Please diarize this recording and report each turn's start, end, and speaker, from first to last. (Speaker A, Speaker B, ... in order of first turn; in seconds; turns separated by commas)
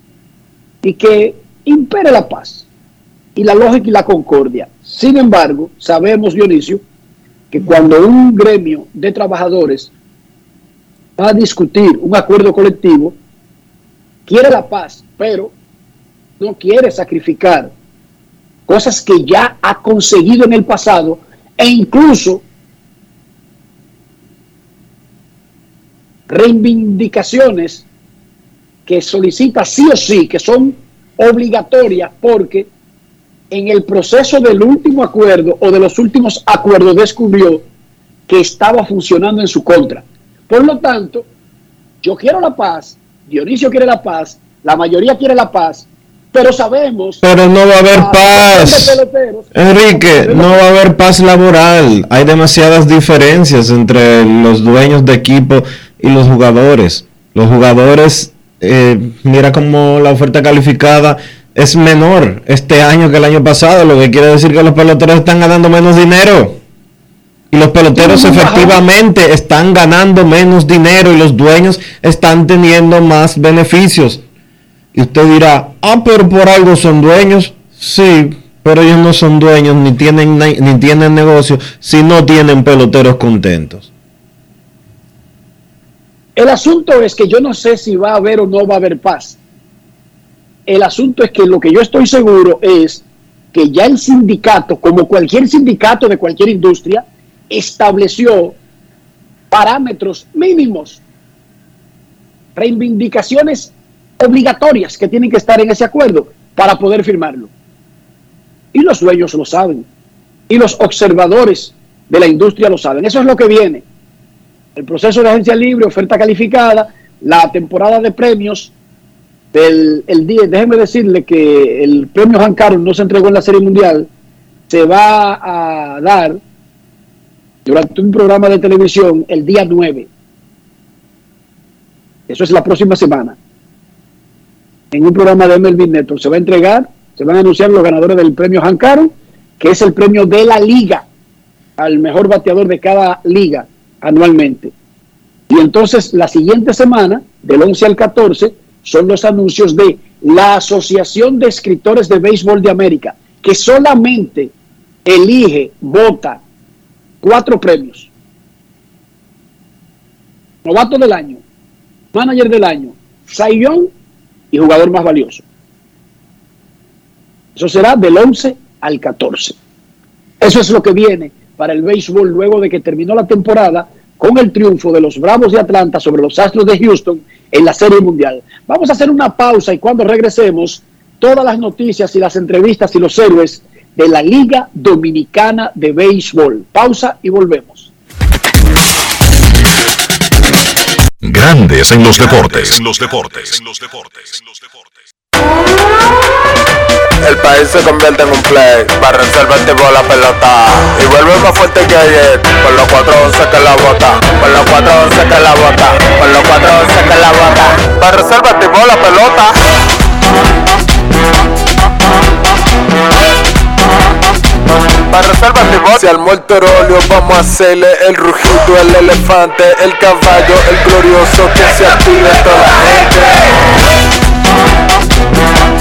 Speaker A: 0.8-2.6, Speaker A: 3.4-6.8, Speaker A: 7.5-9.9, Speaker A: 11.2-13.2, Speaker A: 14.3-15.5, Speaker A: 16.4-17.7, Speaker A: 18.7-22.4, Speaker A: 26.3-27.8, Speaker A: 28.9-32.7, Speaker A: 33.5-37.6, Speaker A: 38.3-41.3, Speaker A: 42.0-47.2, Speaker B: 47.2-49.0, Speaker A: 47.9-50.6, Speaker B: 49.5-66.6, Speaker B: 67.5-74.2, Speaker A: 67.9-68.8, Speaker B: 74.9-83.9, Speaker A: 86.3-89.4, Speaker A: 90.7-98.6, Speaker A: 99.5-101.0, Speaker A: 102.5-107.5, Speaker A: 108.7-109.9, Speaker A: 110.5-113.8, Speaker A: 114.8-118.7, Speaker A: 119.5-124.1, Speaker A: 124.7-126.4, Speaker A: 127.7-130.1, Speaker A: 132.3-133.4, Speaker A: 134.9-141.1, Speaker A: 141.8-144.7, Speaker A: 145.5-154.5, Speaker A: 155.1-156.4, Speaker A: 157.2-158.1, Speaker A: 160.6-161.4, Speaker A: 162.1-163.9, Speaker A: 164.5-165.4, Speaker A: 167.6-169.6, Speaker A: 170.4-187.9, Speaker C: 191.2-194.4, Speaker D: 197.2-209.5, Speaker D: 215.1-222.9